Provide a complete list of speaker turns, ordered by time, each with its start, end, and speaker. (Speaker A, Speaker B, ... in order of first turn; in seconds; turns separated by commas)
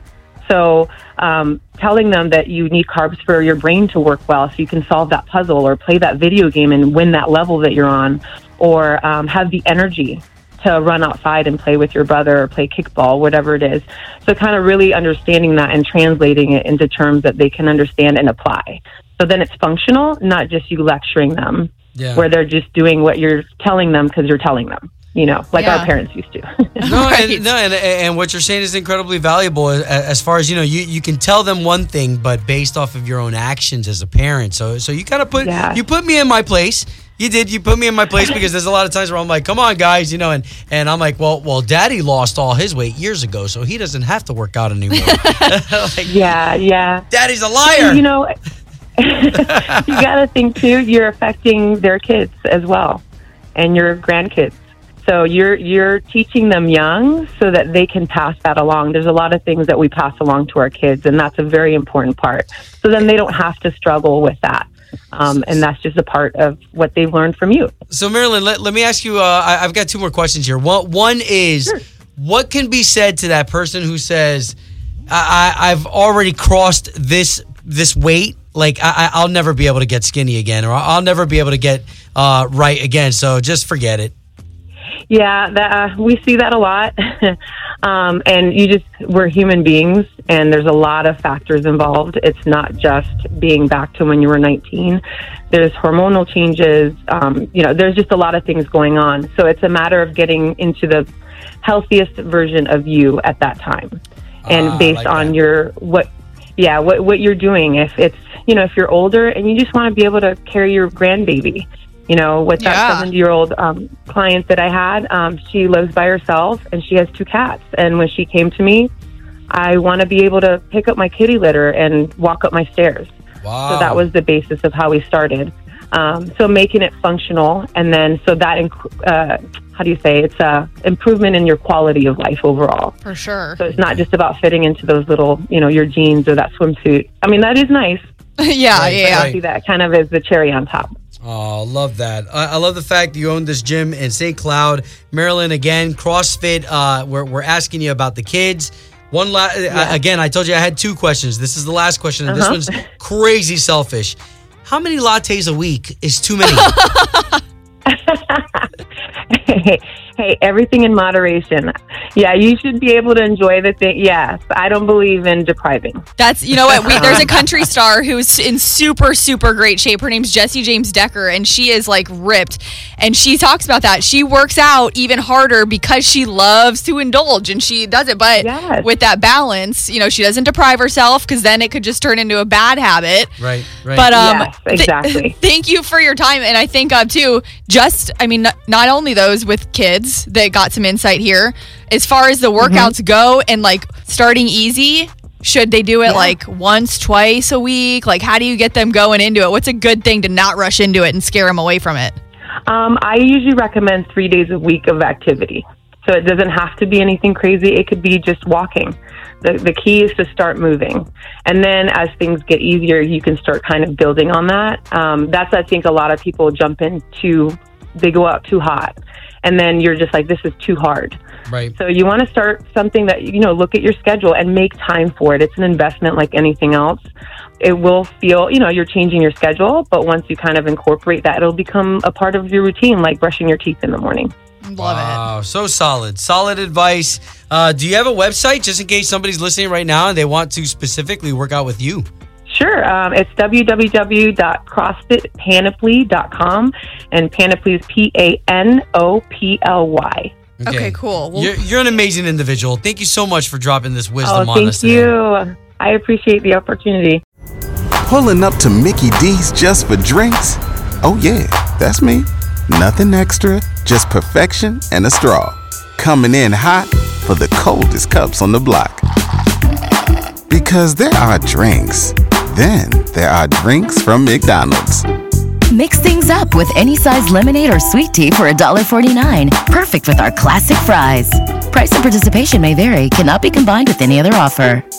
Speaker A: 0.4-26.9, Speaker B: 21.9-22.2, Speaker C: 25.6-25.9, Speaker C: 26.8-27.5, Speaker B: 26.8-46.2, Speaker A: 35.4-35.8, Speaker C: 45.0-45.5, Speaker A: 46.1-47.0, Speaker B: 47.1-48.0, Speaker A: 47.7-48.3, Speaker A: 49.0-53.0, Speaker A: 53.5-67.7, Speaker B: 67.9-74.5, Speaker B: 75.1-84.1, Speaker A: 85.1-101.1, Speaker A: 101.6-118.9, Speaker B: 104.4-105.3, Speaker C: 112.6-113.1, Speaker A: 119.5-123.1, Speaker B: 123.4-124.0, Speaker A: 123.7-132.9, Speaker C: 133.0-133.6, Speaker A: 133.6-138.0, Speaker C: 138.4-139.3, Speaker B: 138.7-139.3, Speaker A: 139.0-140.9, Speaker B: 141.2-156.7, Speaker A: 149.7-150.0, Speaker A: 152.3-152.6, Speaker C: 156.4-157.4, Speaker A: 157.9-158.7, Speaker A: 159.3-166.0, Speaker C: 166.2-183.4, Speaker A: 166.9-167.4, Speaker A: 178.4-178.9, Speaker B: 183.4-184.1, Speaker C: 183.9-202.2, Speaker A: 184.1-185.3, Speaker A: 192.6-192.9, Speaker A: 196.1-196.3, Speaker A: 202.7-221.2, Speaker A: 221.8-227.1, Speaker A: 227.6-234.3, Speaker C: 234.6-235.2, Speaker B: 234.8-242.1, Speaker A: 242.5-250.3, Speaker B: 250.6-255.1, Speaker C: 250.6-251.6, Speaker A: 254.2-257.2, Speaker D: 258.1-269.0, Speaker D: 270.5-275.0, Speaker E: 275.7-284.8